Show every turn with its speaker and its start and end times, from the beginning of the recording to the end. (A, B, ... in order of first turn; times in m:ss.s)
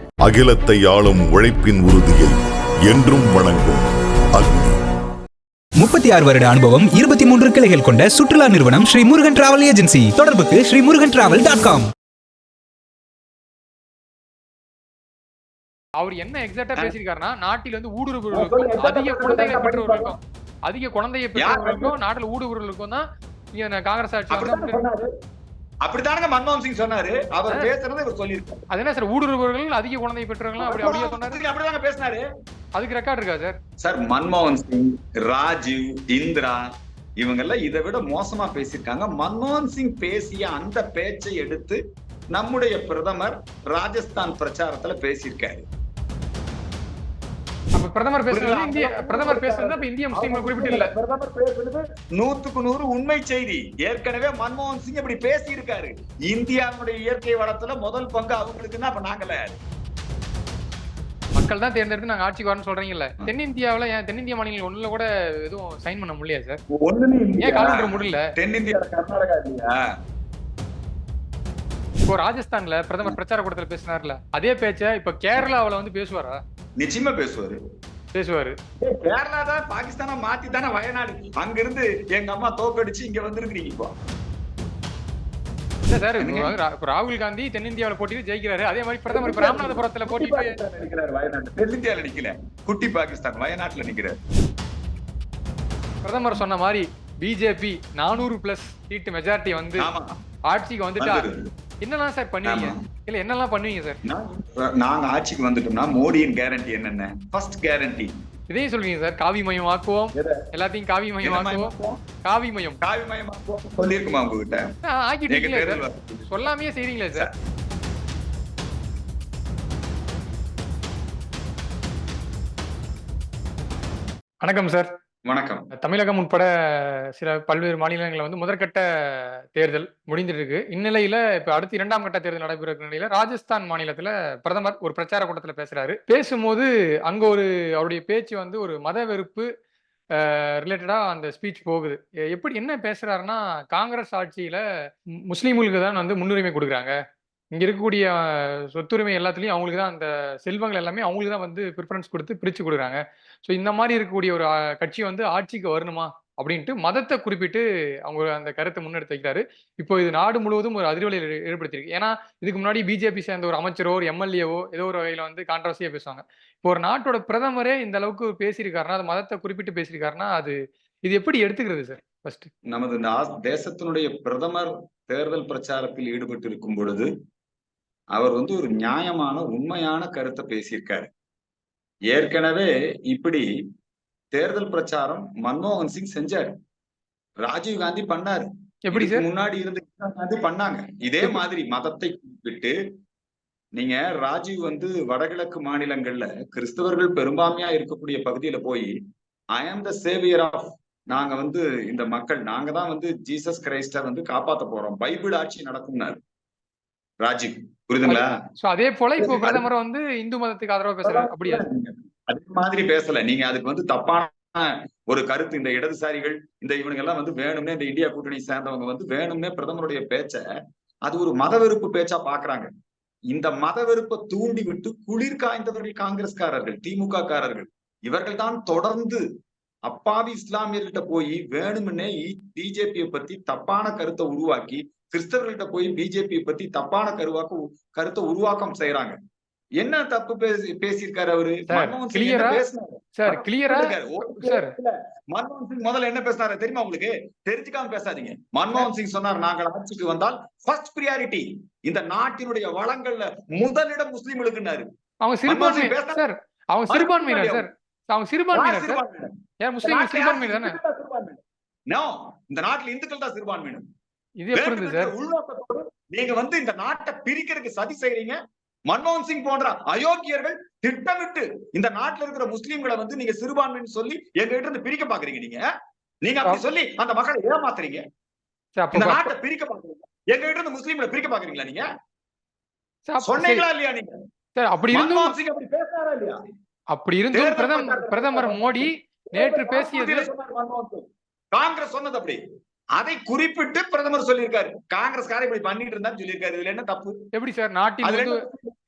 0:00.2-0:02.3 A
0:02.9-0:04.8 A
0:05.8-0:11.9 B
0:16.0-0:24.8 C
0:18.3-0:20.2 D
0:21.4-0:22.0 D
0:24.3-0:25.1 D
0:25.8-0:28.6 D
0:28.7-0:31.4 C
0:30.6-0:32.2 D
0:32.8-0:33.6 C
0:33.8-0:36.7 D
0:37.2-0:41.8 D
0:42.3-0:45.7 D
0:47.7-0:50.9 C
0:48.3-0:59.6 D
1:01.4-1:06.6 C
1:06.7-1:09.9 D
1:07.4-1:08.3 C
1:12.1-1:16.4 C
1:16.8-1:17.6 D
1:18.1-1:18.6 C
1:18.8-1:23.9 D
1:25.9-1:30.6 C
1:26.2-1:26.6 D
1:29.1-1:34.2 D
1:36.0-1:39.9 C
1:39.8-1:40.2 D
1:40.5-1:41.3 C
1:41.0-1:41.5 D
1:41.8-1:44.0 C
1:42.5-1:42.8 D
1:44.1-1:48.2 D
1:48.5-1:51.7 C
1:50.2-1:50.4 D
1:51.2-1:52.0 D
1:52.2-1:52.8 C
1:52.8-1:54.7 D
1:54.8-1:57.3 C
1:55.3-1:56.4 D
2:04.4-2:04.9 C
2:05.3-2:05.7 D
2:05.7-2:19.5 C
2:20.2-2:24.6 C
2:25.3-2:26.9 C
2:27.5-2:52.5 C
2:52.6-2:57.1 D
2:58.1-3:01.1 D
3:02.1-3:03.5 D
3:04.3-3:06.5 D
3:07.4-3:12.8 D
3:08.9-3:09.3 C
3:13.8-3:19.0 D
3:19.5-3:26.2 D
3:27.2-3:28.3 D
3:28.1-3:31.6 C
3:29.2-3:29.6 D
3:31.0-3:40.4 D
3:41.1-3:42.7 D
3:43.3-3:49.2 D
3:49.9-3:59.2 D
3:59.8-4:14.9 D
4:01.7-4:02.6 C
4:03.2-4:04.7 C
4:15.2-4:19.0 C
4:15.5-4:16.2 D
4:16.9-4:17.7 D
4:18.5-4:19.3 D
4:19.6-4:20.8 C
4:19.8-4:23.9 D
4:24.4-4:25.1 C
4:24.5-4:28.4 D
4:28.9-4:35.6 D
4:36.2-4:38.0 D
4:38.8-4:39.3 C
4:38.9-4:41.9 D
4:43.1-4:43.6 C
4:43.2-4:44.1 D
4:44.6-4:45.3 C
4:44.9-4:46.4 D
4:46.9-4:50.3 C
4:47.3-4:52.4 D
4:53.0-4:57.1 D
4:57.3-4:58.4 C
4:58.0-4:58.7 D